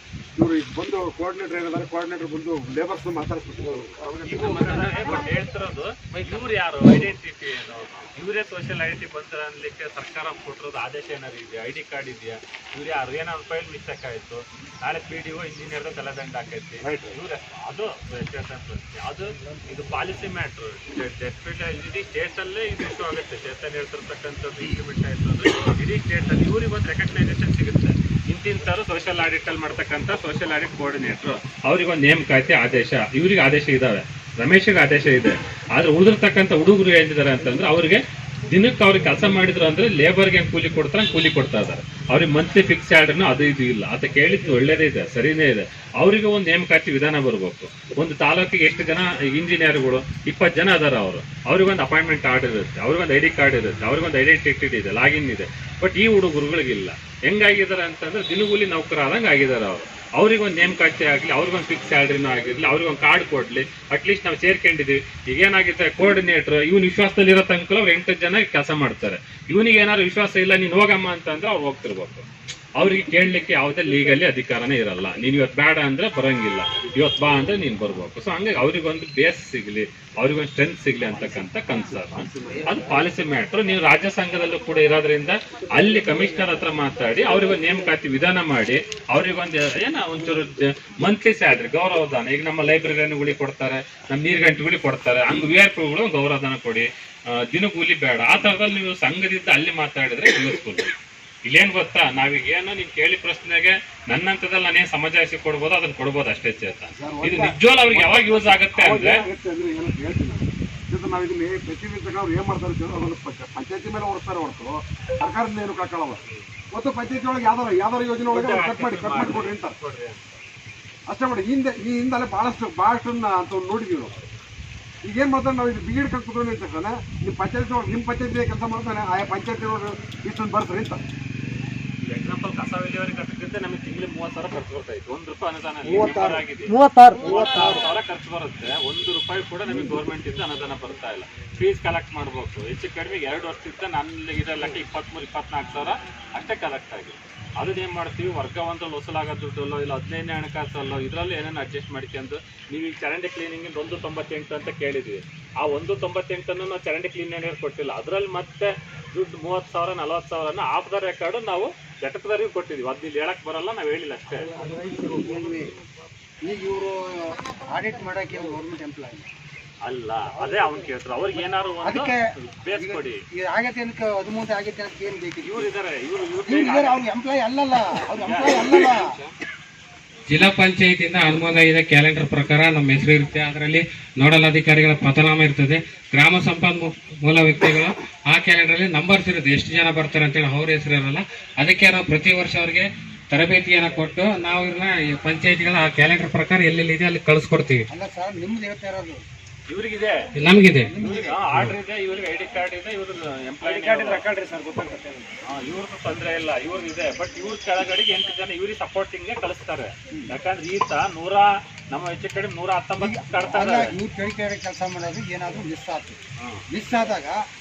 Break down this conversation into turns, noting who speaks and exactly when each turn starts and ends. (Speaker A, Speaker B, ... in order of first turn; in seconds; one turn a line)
Speaker A: 0.3-4.7
Speaker B: 4.2-100.9
Speaker A: 16.8-17.1
Speaker B: 101.5-109.2
Speaker A: 107.0-116.2
Speaker A: 116.7-119.8
Speaker B: 118.3-120.4
Speaker A: 121.1-124.1
Speaker A: 125.0-131.0
Speaker B: 132.1-164.5
Speaker C: 135.9-137.8
Speaker C: 164.6-165.7
Speaker C: 166.4-169.3
Speaker B: 169.8-173.2
Speaker C: 171.8-172.2
Speaker C: 172.8-175.7
Speaker B: 175.4-177.1
Speaker C: 176.5-179.2
Speaker B: 178.2-179.0
Speaker D: 180.3-197.8
Speaker C: 197.9-199.2
Speaker B: 199.7-200.2
Speaker D: 200.4-200.9
Speaker C: 200.9-201.5
Speaker B: 201.0-204.3
Speaker C: 203.6-205.3
Speaker B: 205.5-213.9
Speaker C: 213.0-216.2
Speaker C: 216.7-217.4